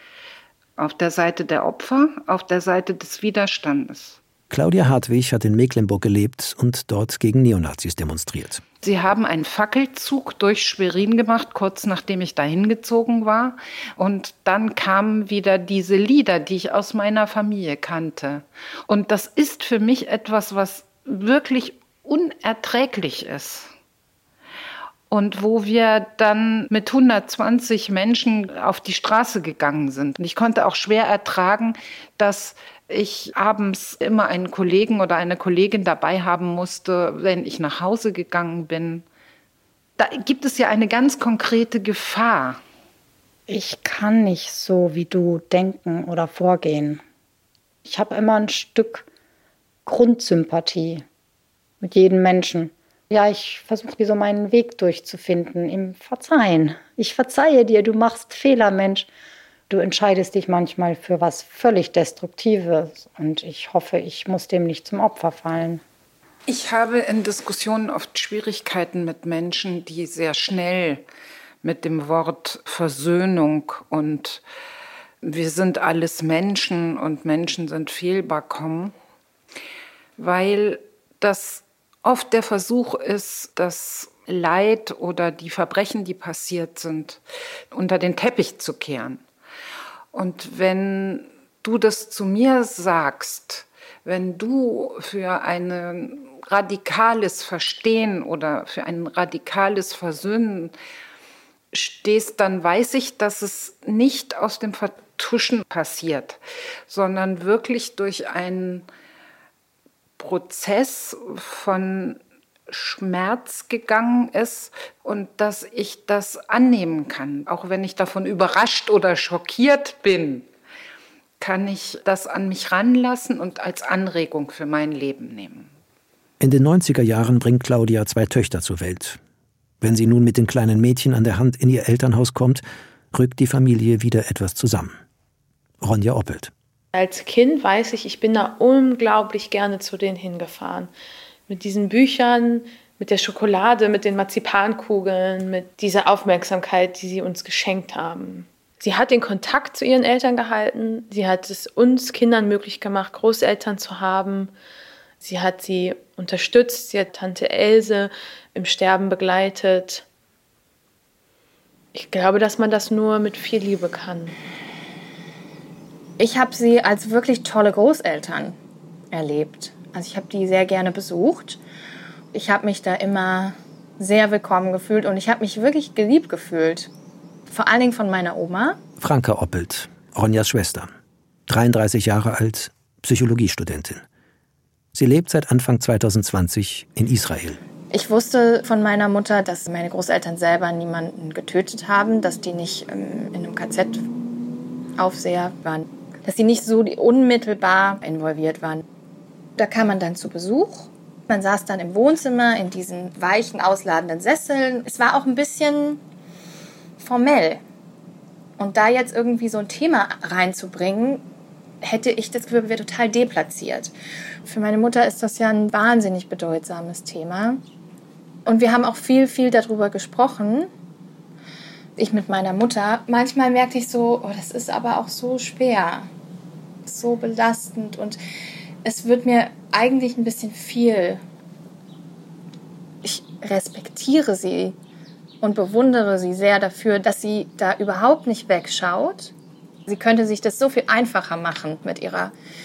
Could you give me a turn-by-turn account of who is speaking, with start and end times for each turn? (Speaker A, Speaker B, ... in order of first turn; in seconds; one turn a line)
Speaker A: 0.8-4.2
Speaker B: 4.5-8.6
Speaker A: 8.8-23.7
Speaker A: 25.1-39.0
Speaker A: 40.0-42.6
Speaker C: 43.5-47.0
Speaker C: 47.8-49.0
Speaker C: 49.9-51.0
Speaker C: 51.8-59.1
Speaker C: 59.7-65.8
Speaker A: 66.5-71.0
Speaker A: 71.6-74.4
Speaker A: 75.2-78.9
Speaker A: 80.2-87.2
Speaker A: 87.7-89.2
Speaker A: 90.1-100.7
Speaker A: 101.7-108.9
Speaker A: 110.2-120.5
Speaker A: 121.4-125.7
Speaker B: 126.4-129.2
Speaker B: 129.8-134.9
Speaker B: 135.8-136.5
Speaker D: 136.9-140.9
Speaker D: 141.5-154.5
Speaker D: 155.2-160.0
Speaker D: 161.9-164.3
Speaker E: 166.2-168.6
Speaker E: 169.1-171.6
Speaker E: 172.3-176.9
Speaker E: 177.5-178.8
Speaker B: 179.0-180.9
Speaker B: 181.5-184.0
Speaker B: 184.9-187.6
Speaker E: 187.9-194.1
Speaker E: 194.9-198.8
Speaker E: 199.6-206.0
Speaker E: 207.0-207.6
Speaker E: 208.6-211.2
Speaker E: 211.8-213.9
Speaker E: 214.4-217.6
Speaker E: 218.4-220.7
Speaker E: 222.0-226.1
Speaker E: 226.8-228.2
Speaker E: 228.8-231.2
Speaker E: 233.0-234.8
Speaker E: 235.4-239.3
Speaker E: 239.9-242.3